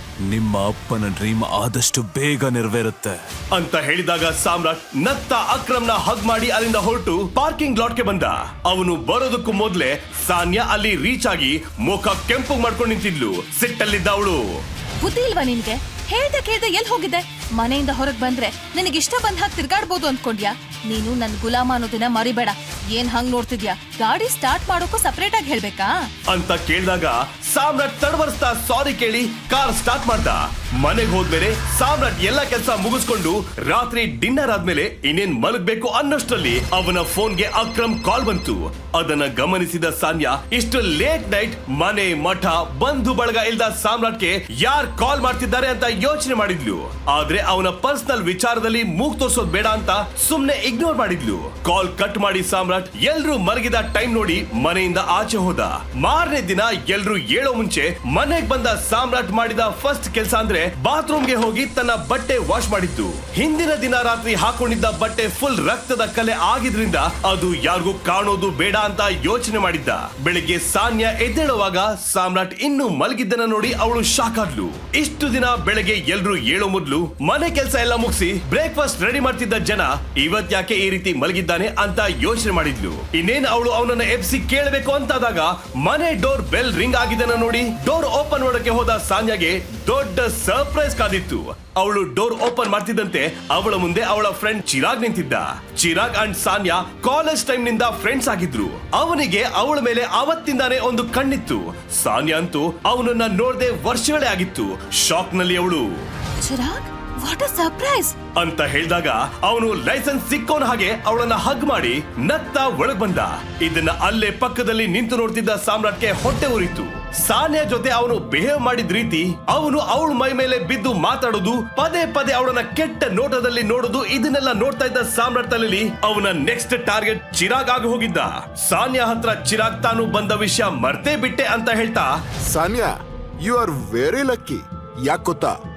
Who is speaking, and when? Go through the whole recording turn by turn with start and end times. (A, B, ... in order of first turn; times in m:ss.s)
0:00.2-0:03.2 A
0:03.5-0:14.6 B
0:15.0-0:26.1 C
0:26.3-1:46.0 B
1:46.4-1:48.2 C
1:48.4-2:12.2 B
2:12.5-2:12.9 D
2:13.4-2:15.5 D